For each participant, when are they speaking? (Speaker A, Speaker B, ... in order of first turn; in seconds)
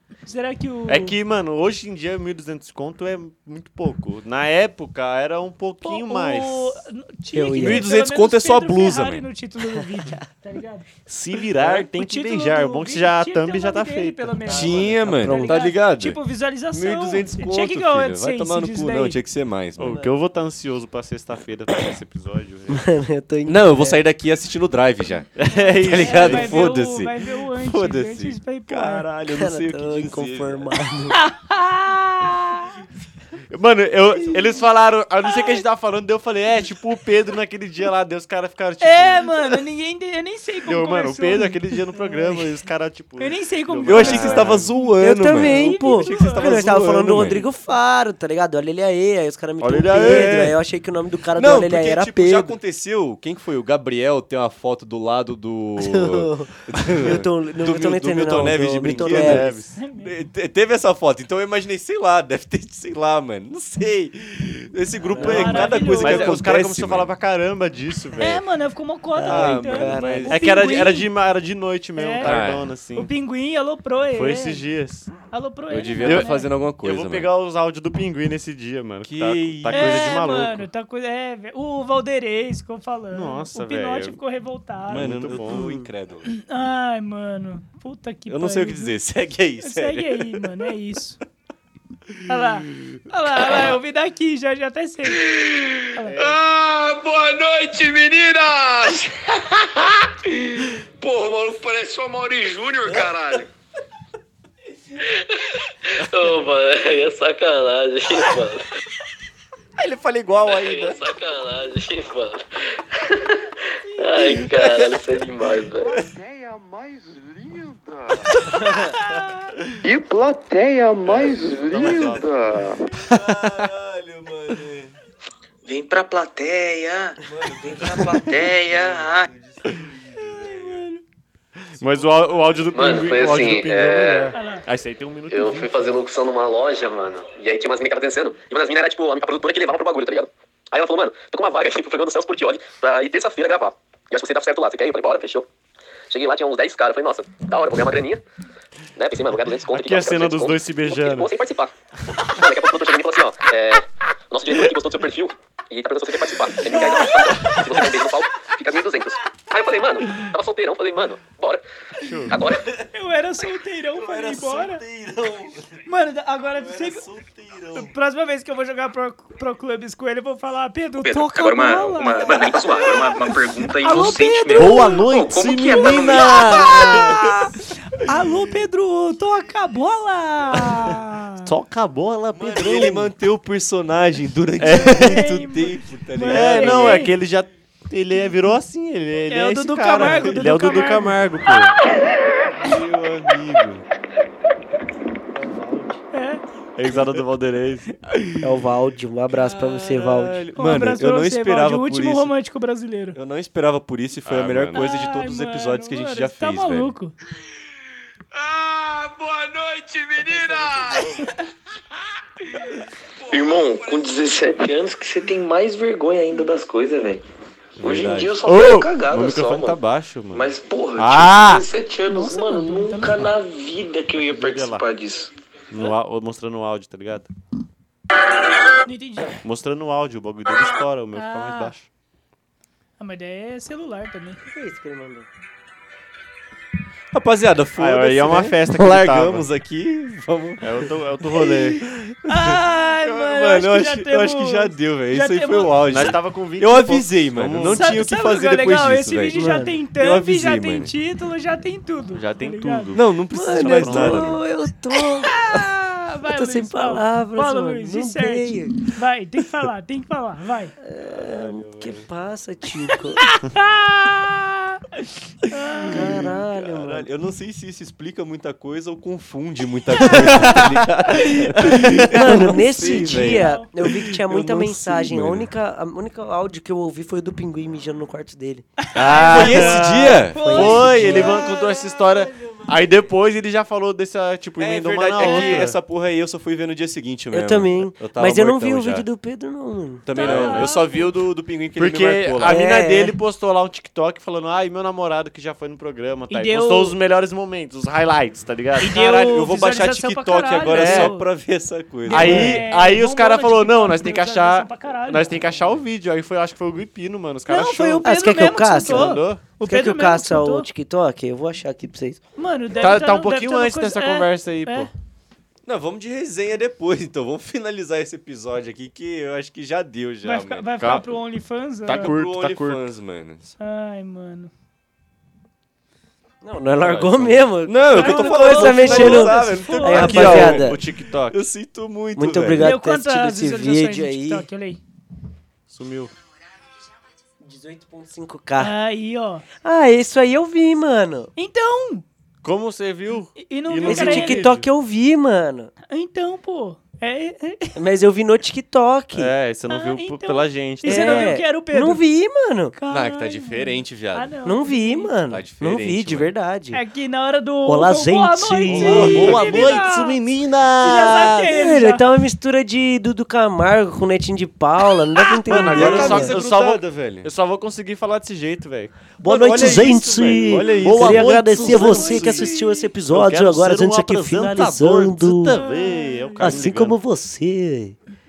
Speaker A: 0.2-1.1, 5.8-10.9, 11.9-19.2, 25.5-29.1, 31.1-32.8, 38.8-42.5, 43.2-46.5, 59.8-60.1, 65.2-66.4, 68.2-71.1, 72.0-72.3, 73.0-74.6, 75.3-76.5, 79.7-85.1, 86.3-88.9, 89.6-91.2, 92.2-95.2, 130.1-131.0, 134.3-134.6, 156.6-157.3, 162.9-164.8, 165.8-167.0, 167.7-173.1, 173.8-175.0, 175.8-181.5, 184.7-187.1, 189.3-191.2, 196.1-196.4, 200.6-203.2, 204.7-207.1, 222.1-223.3, 228.8-229.4, 231.1-231.7, 233.0-234.4, 242.2-246.1, 247.7-252.9, 255.0-260.7, 263.2-264.5, 265.5-266.2, 273.0-273.7, 278.8-281.8, 285.2-285.7, 290.1-291.0, 296.3-296.9, 298.8-301.3, 302.0-305.4, 307.5-310.7, 312.4-314.9, 320.2-322.1, 323.6-324.5, 327.9-330.2, 332.6-334.8, 338.6-339.4, 341.4-342.0, 343.4-344.4, 345.9-347.8, 349.7-352.0, 352.7-355.1, 356.7-360.2, 360.8-362.1, 371.5-372.9, 375.4-376.6
Speaker B: 0.9-6.8, 11.1-15.0, 19.8-22.9, 25.4-26.7, 33.5-39.5, 40.6-44.7, 49.6-50.5, 58.4-59.8, 65.0-68.4, 70.3-73.1, 74.1-75.1, 76.0-80.7, 83.1-84.2, 84.9-85.7, 96.0-96.4, 121.0-122.3, 123.0-123.7, 131.8-135.9, 149.7-151.3, 162.0-162.4, 174.5-177.3, 181.4-183.1, 184.6-185.2, 186.3-191.7, 196.8-198.0, 204.2-204.8, 217.9-220.4, 221.0-221.6, 224.3-224.8, 225.7-227.3, 229.4-231.8, 237.8-239.4, 240.6-241.8, 245.8-248.0, 252.1-254.4, 270.2-272.2, 279.0-285.8, 290.2-290.7, 291.7-299.1, 300.7-301.1, 302.1-309.4, 312.8-314.9, 320.8-321.1, 321.9-322.9, 326.8-327.4, 328.0-331.4, 335.7-336.1, 342.4-344.7, 349.1-351.4, 358.7-361.6, 365.4-377.0
Speaker C: 7.3-7.9, 9.8-10.2, 15.0-15.6, 22.7-24.0, 29.3-31.2, 45.0-52.5, 55.8-59.5, 65.2-65.6, 69.2-70.3, 85.5-85.8, 198.4-200.4, 234.5-235.3, 249.3-249.8, 253.3-255.4, 256.2-258.8, 260.8-263.2, 265.9-267.1, 270.0-270.7, 271.5-278.6, 280.3-281.4, 287.3-290.6, 292.4-293.2, 307.6-312.2, 326.4-330.8, 332.1-334.5, 337.4-338.7, 339.6-341.3, 343.9-345.7, 347.7-349.3, 350.8-352.7, 354.4-356.8, 357.6-359.4, 361.5-366.4, 369.2-375.6, 376.4-378.0
Speaker D: 7.6-9.3, 11.6-11.8, 14.5-16.2, 16.7-20.0, 23.4-30.8, 43.8-47.5, 49.8-50.6, 51.3-67.1, 69.2-70.8, 72.2-72.7, 75.7-77.3, 79.0-80.2, 84.9-86.3, 88.3-90.5, 109.8-111.0, 114.2-115.0, 123.0-124.9, 127.2-130.8, 131.8-132.1, 162.5-162.9, 163.9-165.8, 166.5-167.9, 175.8-177.2, 182.3-187.1, 192.6-193.8, 199.3-202.3, 203.1-206.9, 217.8-218.4, 237.1-240.7, 241.4-250.9, 252.9-254.4, 261.3-262.0, 265.9-275.5, 278.9-281.3, 284.6-289.1, 290.0-292.6, 298.9-302.6, 315.6-320.9, 321.9-323.5, 327.6-332.7, 352.9-354.4, 355.3-356.3, 358.8-359.8, 365.4-367.3, 369.2-372.4
Speaker E: 95.3-103.5, 105.0-108.6, 110.4-116.0, 125.6-129.3, 132.7-134.3, 135.3-145.5, 146.1-148.2, 148.9-151.7, 152.3-161.6, 162.3-162.6, 170.9-177.2, 208.3-211.2, 213.2-217.2, 217.8-219.8, 220.3-225.3